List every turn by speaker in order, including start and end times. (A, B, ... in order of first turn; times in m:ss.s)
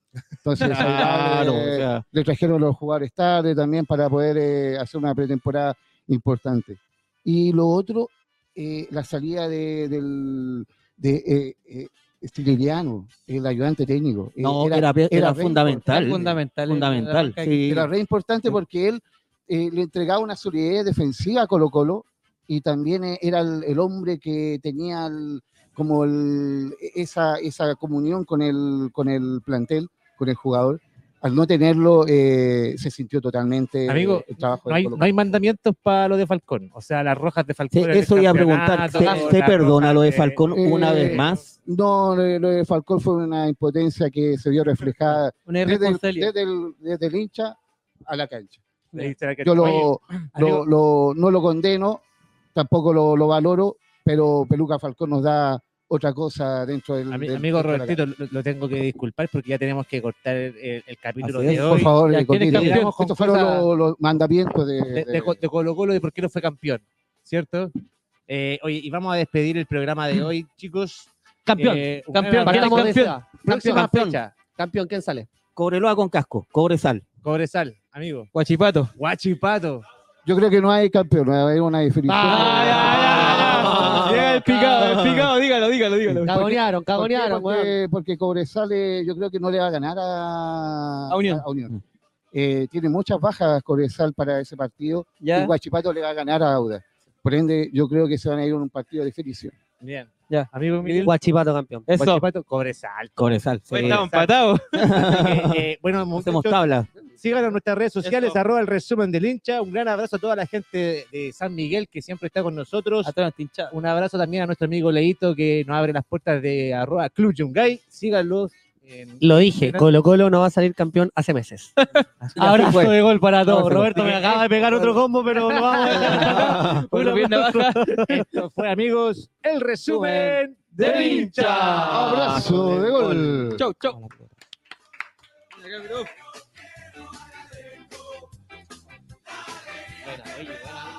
0:00.4-0:16.4 A
0:00.6-0:02.0 B
0:00.6-0:01.1 C
0:14.4-0:17.9 B
0:15.8-0:17.7 C
0:17.7-0:35.1 A
0:33.9-0:41.4 D
0:37.7-0:41.5 B
0:39.0-0:39.4 E
0:40.5-0:48.6 A
0:45.5-0:46.3 C
0:49.0-0:50.7 D
0:49.4-0:52.0 A
0:52.6-0:58.0 A
0:57.1-1:03.7 D
1:01.2-1:01.8 B
1:01.5-1:05.4 A
1:02.0-1:02.9 C
1:04.9-1:07.7 D
1:08.3-1:14.3 D
1:11.5-1:11.9 E
1:12.1-1:13.3 C
1:12.4-1:13.3 E
1:13.4-1:14.2 B
1:14.5-1:15.3 E
1:15.6-1:17.0 B
1:17.2-1:18.3 D
1:18.3-1:18.9 C
1:19.0-1:19.8 D
1:20.2-1:23.3 A
1:22.1-1:23.7 E
1:22.2-1:26.6 C
1:22.9-1:25.3 B
1:23.0-1:24.1 D
1:26.2-1:27.8 E
1:27.0-1:31.7 A
1:31.1-1:31.5 C
1:32.3-1:39.5 A
1:35.2-1:35.5 C
1:39.8-1:41.2 D
1:40.3-1:41.1 C
1:41.0-1:41.9 E
1:41.9-1:42.2 C
1:42.0-1:44.3 D
1:43.2-1:44.1 B
1:43.7-1:44.9 C
1:44.8-1:45.6 B
1:44.9-1:53.1 D
1:46.2-1:46.9 B
1:48.0-1:48.4 C
1:53.0-1:53.7 C
1:53.7-1:59.9 D
1:59.2-2:01.7 E
2:02.2-2:12.2 D
2:02.4-2:06.7 E
2:05.8-2:08.2 C
2:06.2-2:06.9 B
2:07.8-2:08.2 E
2:09.9-2:14.1 C
2:10.8-2:11.3 B
2:11.9-2:13.7 A
2:15.6-2:16.1 C
2:20.3-2:20.8 E